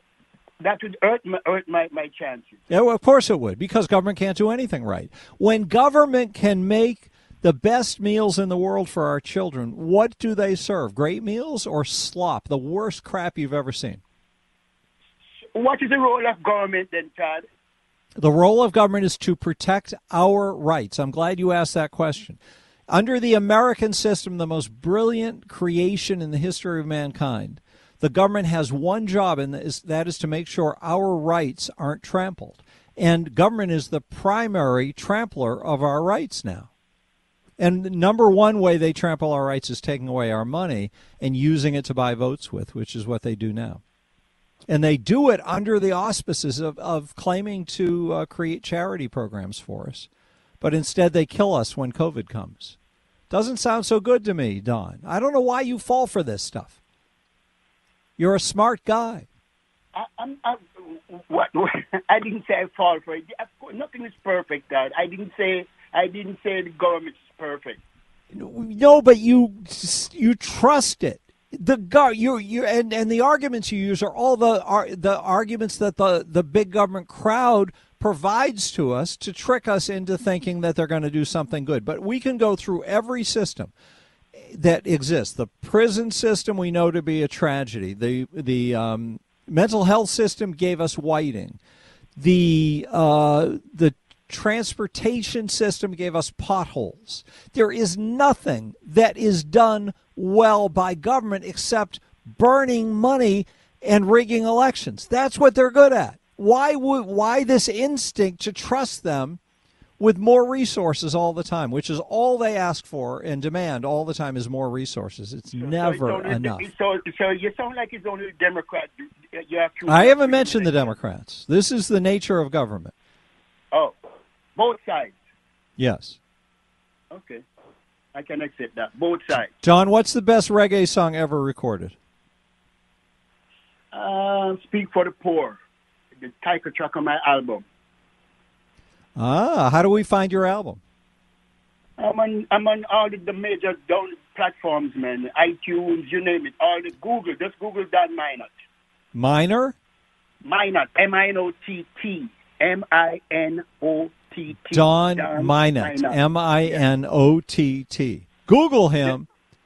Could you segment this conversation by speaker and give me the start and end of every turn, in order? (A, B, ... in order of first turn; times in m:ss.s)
0:00.6-0:02.6 A
0:02.7-0:14.0 B
0:15.5-0:17.5 A
0:18.2-0:36.7 B
0:37.6-0:43.8 B
0:44.7-0:50.1 B
0:50.6-0:52.8 B
0:53.3-0:56.8 B
0:58.2-0:59.3 B
0:59.9-1:07.8 A
1:08.3-1:23.7 B
1:24.4-1:31.6 B
1:32.2-1:49.4 B
1:50.0-1:56.7 B
1:55.6-2:00.9 A
1:59.8-2:02.9 B
2:04.6-2:05.2 A
2:05.8-2:06.2 B
2:07.1-2:07.4 A
2:08.1-2:09.5 A
2:09.6-2:12.0 B
2:13.9-2:15.6 A
2:16.2-2:17.6 A
2:19.2-2:20.8 B
2:22.0-2:28.6 A
2:29.1-2:29.7 B
2:30.4-2:36.8 A
2:34.7-2:39.3 B